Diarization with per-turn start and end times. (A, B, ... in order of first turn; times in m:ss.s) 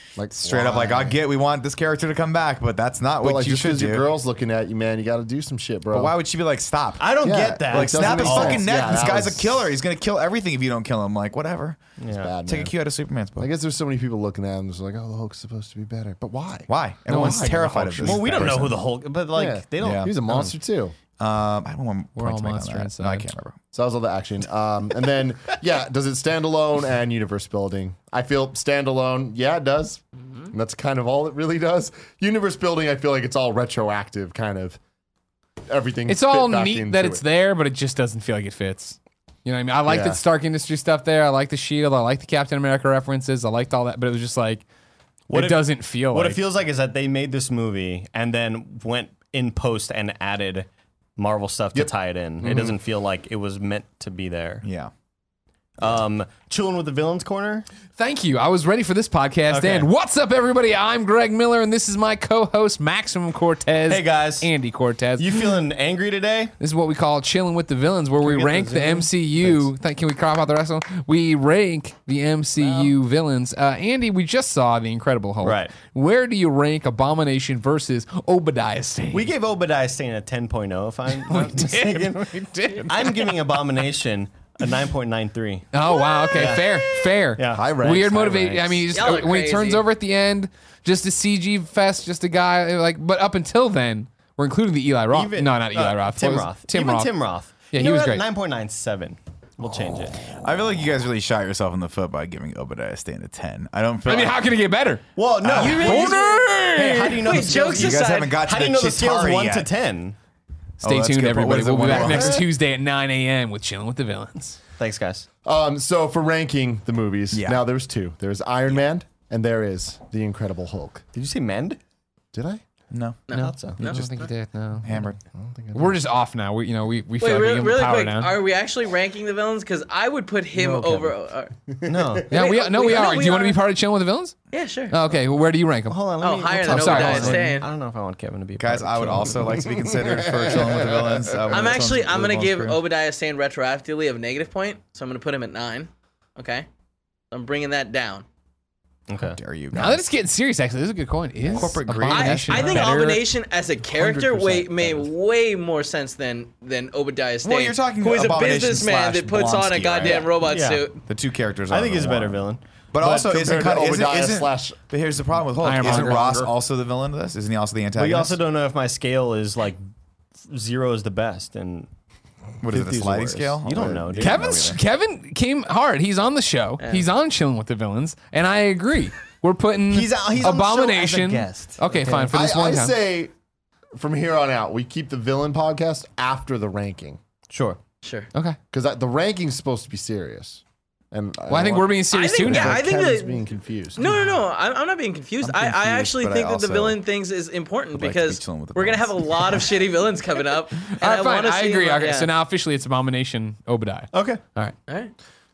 0:00.2-0:01.2 A
0:00.3-0:04.0 B
0:03.2-0:06.1 A
0:05.9-0:11.8 B
0:07.0-0:09.2 C
0:07.2-0:09.7 A
0:12.0-0:12.3 C
0:12.1-0:12.7 A
0:12.5-0:13.5 B
0:13.4-0:18.7 A
0:16.7-0:18.8 B
0:17.1-0:17.4 D
0:17.5-0:20.5 C
0:19.3-0:21.0 A
0:19.8-0:20.1 B
0:21.2-0:23.6 B
0:22.2-0:23.3 D
0:23.7-0:34.8 A
0:35.7-0:37.2 A
0:36.1-0:44.6 D
0:39.9-0:40.2 A
0:45.3-0:46.4 D
0:45.3-0:54.6 C
0:51.7-0:52.8 A
0:54.6-0:54.9 B
0:55.8-0:57.7 C
0:58.0-1:05.4 D
0:59.5-0:59.9 C
1:03.9-1:04.5 C
1:05.2-1:06.5 C
1:06.6-1:19.3 D
1:08.2-1:09.7 C
1:12.6-1:12.9 C
1:15.4-1:15.7 C
1:19.1-1:27.7 C
1:21.2-1:23.6 D
1:25.7-1:37.2 D
1:27.5-1:28.9 A
1:28.9-1:29.8 E
1:35.1-1:40.2 C
1:37.7-1:38.2 D
1:40.3-1:44.4 B
1:44.0-1:45.0 D
1:45.2-1:50.2 C
1:45.4-1:46.0 B
1:45.6-1:47.4 D
1:45.6-1:46.3 E
1:47.2-1:48.4 E
1:47.6-1:49.7 B
1:50.8-1:52.5 B
1:50.8-1:54.6 D
1:51.9-1:52.3 A
1:54.8-1:55.3 C
1:55.4-2:01.0 A
1:57.3-1:57.6 B
2:01.1-2:01.8 C
2:02.3-2:02.6 A
2:02.9-2:03.2 B
2:03.3-2:04.3 E
2:03.3-2:05.0 D
2:03.3-2:03.8 C
2:03.8-2:04.2 B
2:04.8-2:05.2 B
2:05.3-2:06.0 A
2:05.7-2:08.4 D
2:07.2-2:11.5 E
2:10.6-2:11.1 C
2:11.7-2:12.2 A
2:11.8-2:12.3 C
2:12.3-2:14.4 D
2:12.3-2:13.6 E
2:14.5-2:15.0 E
2:14.9-2:16.1 D
2:15.9-2:19.7 C
2:16.2-2:17.7 E
2:16.6-2:17.5 D
2:18.6-2:22.8 B
2:19.6-2:21.7 A
2:21.5-2:26.7 E
2:27.3-2:28.2 E
2:29.1-2:29.4 C
2:29.2-2:30.0 B
2:29.7-2:33.2 D
2:31.5-2:33.0 B
2:32.1-2:41.0 E
2:33.9-2:35.1 A
2:37.4-2:40.3 B
2:40.4-2:40.9 C
2:41.1-2:48.4 B
2:41.7-2:43.2 C
2:43.0-2:44.8 A
2:45.6-2:46.3 D
2:45.7-2:46.5 A
2:48.0-2:49.8 C
2:50.4-2:51.9 C
2:52.6-2:54.8 B
2:52.7-2:54.4 C
2:53.7-2:54.3 A
2:54.2-3:03.0 D
2:56.8-2:57.1 E
2:59.9-3:02.3 C
3:02.3-3:03.3 A
3:04.0-3:07.2 A
3:07.5-3:07.8 C
3:08.0-3:08.3 E
3:08.7-3:14.1 A
3:11.5-3:12.8 D
3:12.1-3:13.4 E
3:14.0-3:22.3 E
3:15.4-3:17.0 B
3:17.9-3:19.6 B
3:20.9-3:24.8 D
3:24.1-3:24.4 C
3:24.9-3:25.1 E